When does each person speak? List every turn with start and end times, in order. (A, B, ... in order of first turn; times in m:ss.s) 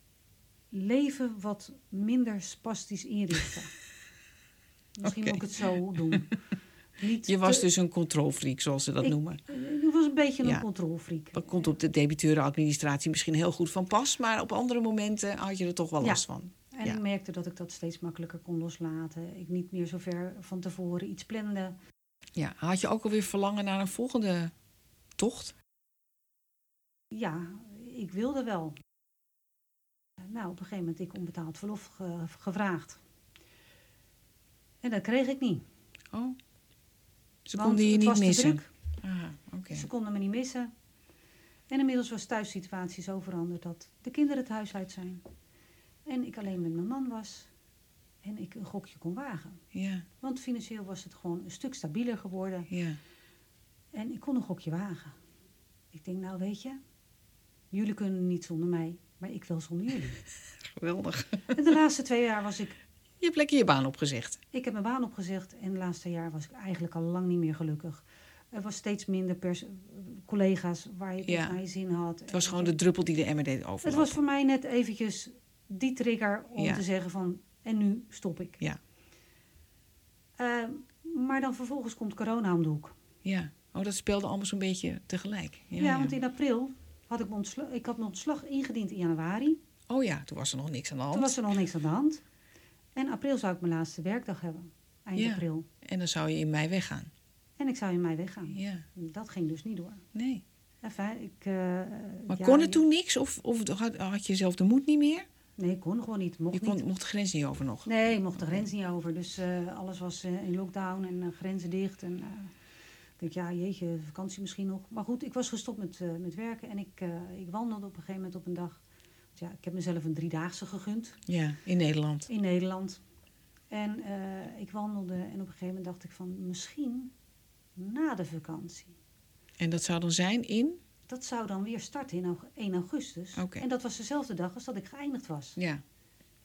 0:00.7-0:03.7 A
0:05.0-0:06.4 A
0:05.0-0:05.4 B
0:07.0-0:07.6 A
0:07.3-0:09.4 B
0:09.0-0:11.6 A
0:11.3-0:17.0 B
0:16.0-0:21.8 A
0:22.4-0:24.5 B
0:25.2-0:25.5 B
0:27.1-0:28.8 A
0:30.2-0:33.0 A
0:34.8-0:35.6 A
0:36.1-0:36.4 B
0:37.5-0:39.9 B
0:37.5-0:38.7 A
0:39.7-0:40.7 A
0:41.7-0:45.2 A
0:46.1-0:47.5 A
0:48.2-0:49.6 A
0:49.7-0:50.1 B
0:50.2-0:52.7 A
0:52.7-0:53.0 B
0:53.9-0:55.2 A
0:55.9-0:56.8 A
0:57.7-1:00.2 A
1:00.6-1:01.5 B
1:01.5-1:02.8 A
1:03.2-1:04.4 B
1:04.5-1:12.8 A
1:11.2-1:11.6 B
1:12.3-1:14.2 B
1:13.8-1:18.6 A
1:16.6-1:16.8 B
1:20.4-1:22.9 A
1:23.2-1:26.1 B
1:25.8-1:29.6 A
1:29.9-1:31.4 B
1:31.1-1:32.2 A
1:33.0-1:35.7 A
1:35.2-1:37.1 B
1:37.6-1:40.0 A
1:38.5-1:38.9 B
1:40.1-1:40.4 B
1:40.8-1:42.8 A
1:42.3-1:45.3 B
1:45.6-1:46.8 A
1:46.5-1:48.6 B
1:47.8-1:52.5 A
1:53.2-1:58.8 A
1:59.4-2:01.2 A
2:01.3-2:02.3 B
2:02.3-2:03.0 A
2:03.7-2:07.1 A
2:07.8-2:09.0 A
2:09.6-2:10.8 B
2:11.1-2:15.6 A
2:13.4-2:13.6 B
2:15.6-2:15.8 B